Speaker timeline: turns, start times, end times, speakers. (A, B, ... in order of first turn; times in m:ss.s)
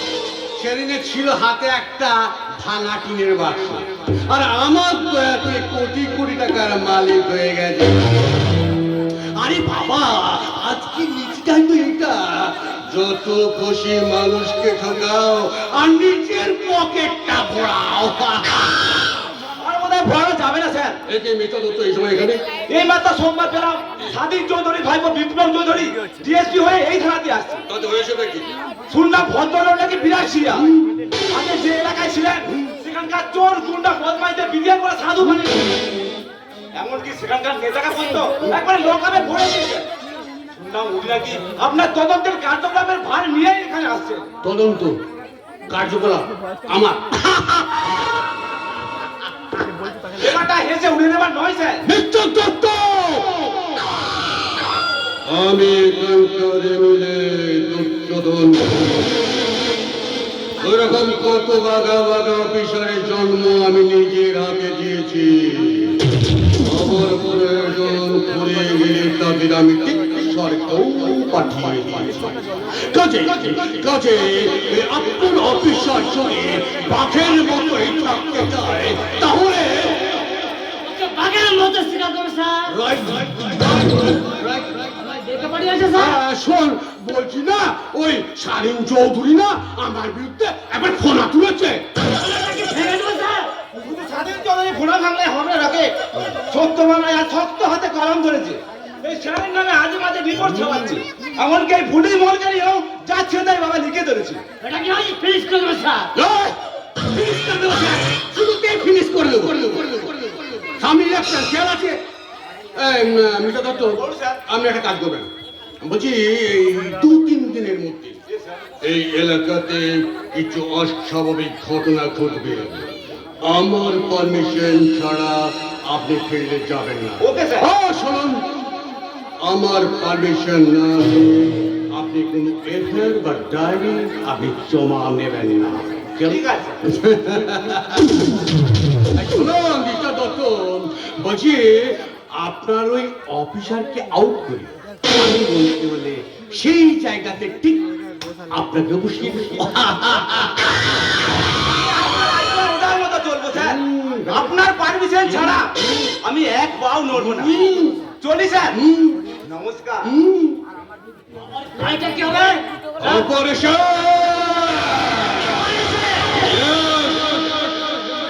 0:00.6-0:08.1 A
0:09.4-0:18.9 A
0:19.6-0:21.0 B
0:21.1-0:22.6 A
0:22.7-0:27.6 B
0:27.7-0:28.5 A
0:28.9-0:35.8 B
0:36.8-0:39.9 B
0:40.6-0:44.2 B
0:44.4-0:45.0 A
0:45.7-0:48.0 A
0:50.1-0:51.8 B
0:51.8-0:53.6 A
0:55.2-0:59.1 A
1:00.6-1:06.1 A
1:06.6-1:20.2 A
1:20.8-1:22.8 C
1:22.7-1:31.8 A
1:25.1-1:26.2 C
1:32.2-1:44.4 B
1:40.4-1:41.0 A
1:44.6-1:46.1 C
1:46.1-1:52.0 A
1:52.7-1:55.3 A
1:54.0-1:54.4 B
1:55.8-1:58.2 A
1:58.8-2:02.9 A
2:03.4-2:08.7 A
2:07.2-2:07.6 B
2:09.4-2:18.2 A
2:16.3-2:16.8 B
2:19.1-2:27.8 A
2:28.5-2:30.6 A
2:31.7-2:35.7 B
2:33.5-2:34.6 A
2:35.2-2:35.9 A
2:36.2-2:37.5 B
2:37.1-2:38.1 A
2:38.2-2:38.7 B
2:38.7-2:39.2 A
2:39.4-2:40.1 B
2:40.0-2:40.6 A
2:41.7-2:42.6 B
2:43.0-2:47.6 A
2:45.9-2:46.4 B